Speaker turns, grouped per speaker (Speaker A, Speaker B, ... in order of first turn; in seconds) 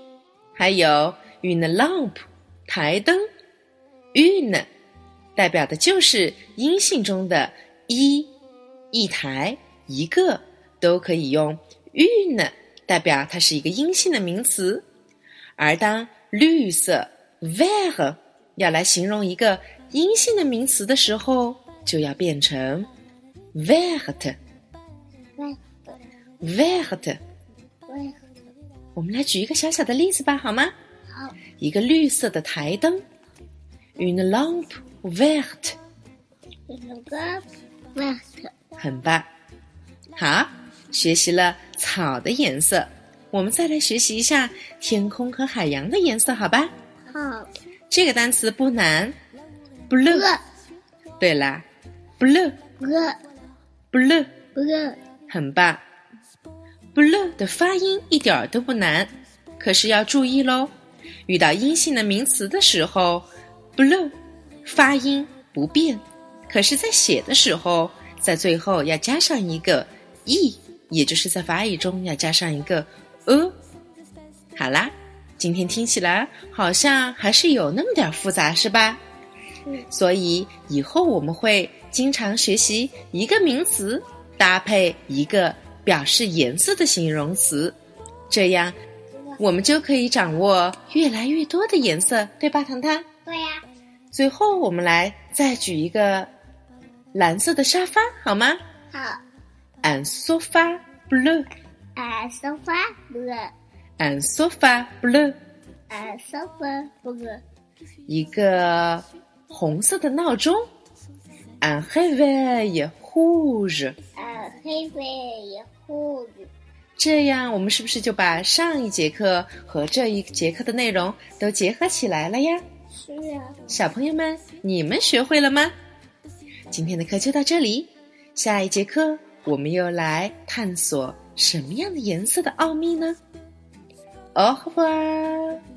Speaker A: 0.6-3.3, 4.1-4.7, 5.3-8.3, 8.9-14.8, 15.6-22.9, 23.5-24.4, 26.4-27.2, 28.9-30.7, 31.6-33.0, 34.0-35.8, 38.8-39.3, 40.1-46.7, 47.9-49.1, 49.9-50.3, 51.2-51.6, 52.2-52.6, 53.9-54.4, 55.3-55.8, 56.9-60.7, 61.3-73.5, 74.5-79.0, 79.9-87.8, 88.3-88.8, 89.4-93.0, 94.1-96.3, 97.1-98.6, 99.8-101.5, 104.0-105.3, 108.1-110.6, 111.6-114.0, 117.0-122.6, 123.7-125.7, 126.7-133.2, 134.3-135.6
Speaker B: 25.4-26.0, 27.9-28.2, 36.7-38.5, 47.1-47.5, 50.1-50.4, 52.8-53.2, 54.5-55.0, 93.2-93.6, 98.9-99.2, 102.0-103.5, 105.9-107.4, 114.2-116.5, 123.0-123.5